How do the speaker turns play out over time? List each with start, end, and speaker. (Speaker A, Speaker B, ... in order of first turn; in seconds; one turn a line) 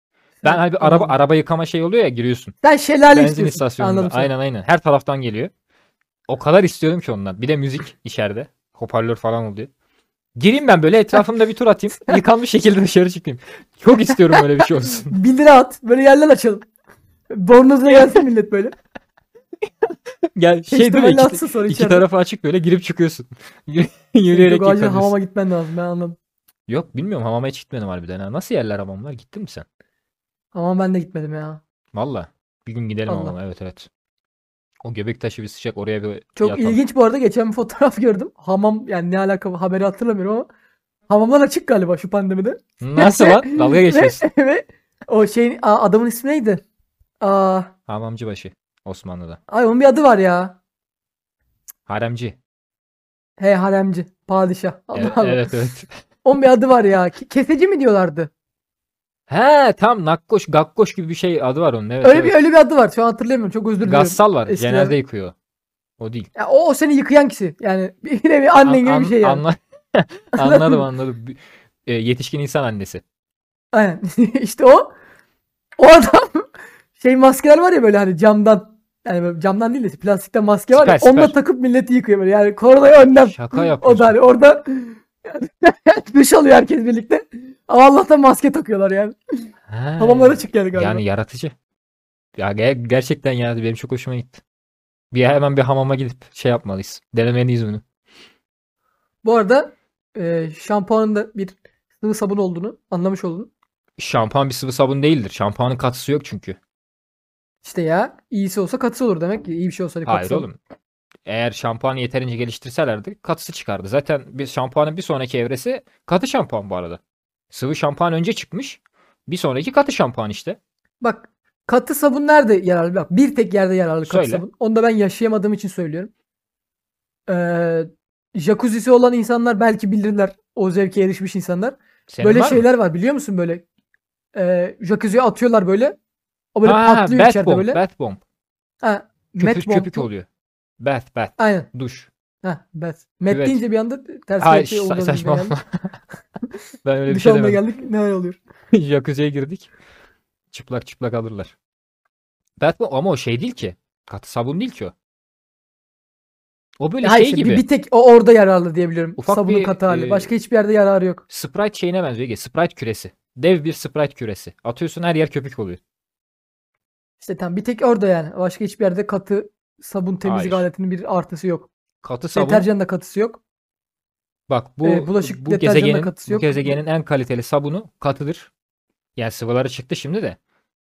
Speaker A: 0.4-1.1
Speaker B: 0.4-2.5
Speaker A: 2.6-4.3
Speaker B: 3.1-5.5
Speaker B: 6.3-9.7
Speaker B: 10.4-15.2
Speaker A: 15.1-16.7
Speaker A: 17.3-18.8
Speaker B: 19.9-25.1
Speaker A: 20.7-22.1
Speaker A: 24.3-26.2
Speaker B: 26.7-29.6
Speaker A: 30.5-31.6
Speaker B: 31.9-33.9
Speaker A: 33.1-33.4
Speaker B: 34.8-36.8
Speaker A: 36.4-40.5
Speaker A: 41.1-46.6
Speaker B: 42.8-44.2
Speaker A: 47.2-47.7
Speaker B: 47.9-49.4
Speaker A: 49.5-50.6
Speaker B: 51.9-52.4
Speaker A: 53.4-55.5
Speaker B: 55.0-55.9
Speaker A: 56.2-58.3
Speaker B: 59.3-62.4
Speaker A: 62.0-65.0
Speaker B: 63.8-65.3
Speaker B: 66.0-66.3
Speaker A: 66.4-69.4
Speaker B: 68.6-73.0
Speaker A: 70.3-70.8
Speaker A: 73.7-74.9
Speaker A: 75.8-76.5
Speaker A: 77.0-89.5
Speaker B: 80.7-81.3
Speaker B: 83.0-84.2
Speaker B: 89.7-91.5
Speaker A: 90.0-91.0
Speaker B: 92.4-94.4
Speaker B: 95.1-97.8
Speaker A: 99.2-103.5
Speaker B: 104.0-106.6
Speaker A: 107.6-110.5
Speaker B: 110.1-110.6
Speaker B: 111.3-117.0
Speaker B: 117.5-120.6
Speaker A: 121.0-126.1
Speaker B: 124.0-124.4
Speaker A: 127.3-133.6
Speaker B: 132.1-132.7
Speaker A: 134.3-136.0
Speaker A: 136.6-137.8
Speaker B: 136.7-138.2
Speaker A: 138.8-140.1
Speaker B: 139.4-140.3
Speaker B: 140.8-142.1
Speaker A: 141.4-141.7
Speaker A: 142.4-145.6
Speaker B: 143.3-143.6
Speaker B: 144.4-145.9
Speaker B: 146.8-147.6
Speaker A: 147.1-148.4
Speaker B: 148.7-149.7
Speaker B: 150.5-151.5
Speaker B: 152.6-154.9
Speaker B: 156.8-157.6
Speaker A: 157.0-161.2
Speaker B: 159.2-160.3
Speaker B: 161.3-165.8
Speaker A: 167.2-171.7
Speaker B: 170.2-170.7
Speaker B: 172.0-172.7
Speaker A: 172.3-173.4
Speaker B: 174.5-178.5
Speaker A: 174.8-176.8
Speaker B: 179.2-180.4